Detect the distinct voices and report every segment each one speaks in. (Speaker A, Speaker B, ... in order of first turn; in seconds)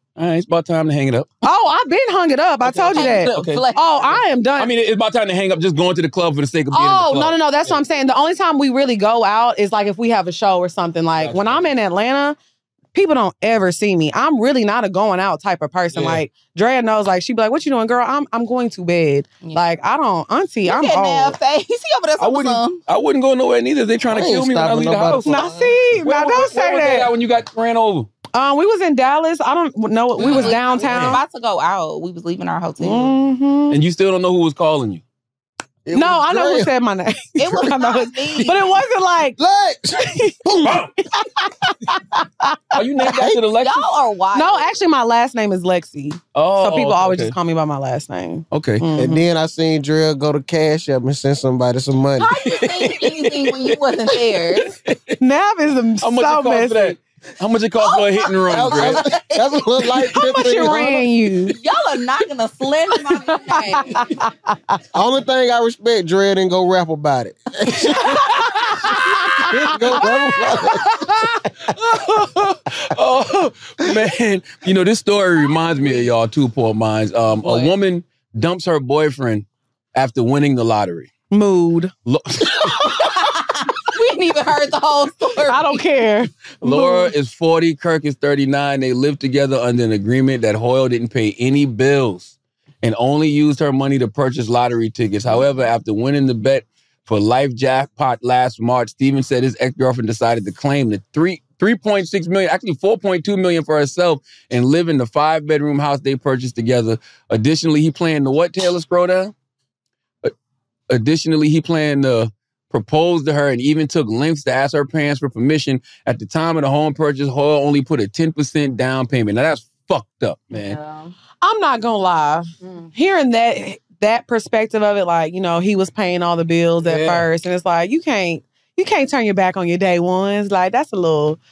Speaker A: 0.2-1.3, 2.6-3.6, 4.6-7.8, 11.2-11.7, 15.9-16.2, 22.2-28.1, 30.2-30.9, 33.7-35.0, 42.7-43.9, 46.3-47.3, 48.5-48.8, 52.4-55.1, 56.0-59.0, 68.1-69.0, 71.7-81.1, 82.0-83.0, 86.6-109.3, 110.9-120.8, 126.8-127.3
Speaker B: 1.4-4.7, 6.7-12.3, 12.9-21.4, 25.2-27.1, 28.3-31.2, 32.8-33.8, 35.9-39.4, 40.0-42.6, 44.3-49.2, 55.2-57.0, 60.1-61.5, 63.6-64.5, 67.8-70.0, 81.3-81.9, 85.5-87.1, 121.4-131.4
Speaker C: 2.9-4.2, 20.6-22.8, 30.2-33.1, 37.4-38.6, 43.6-44.7, 52.2-54.7, 57.9-59.6, 61.5-64.1, 77.4-77.7, 83.3-85.8, 120.5-121.1
Speaker D: 24.1-25.5, 35.9-36.7, 39.4-40.8, 49.0-52.3, 58.5-61.0, 64.9-68.2, 69.5-71.0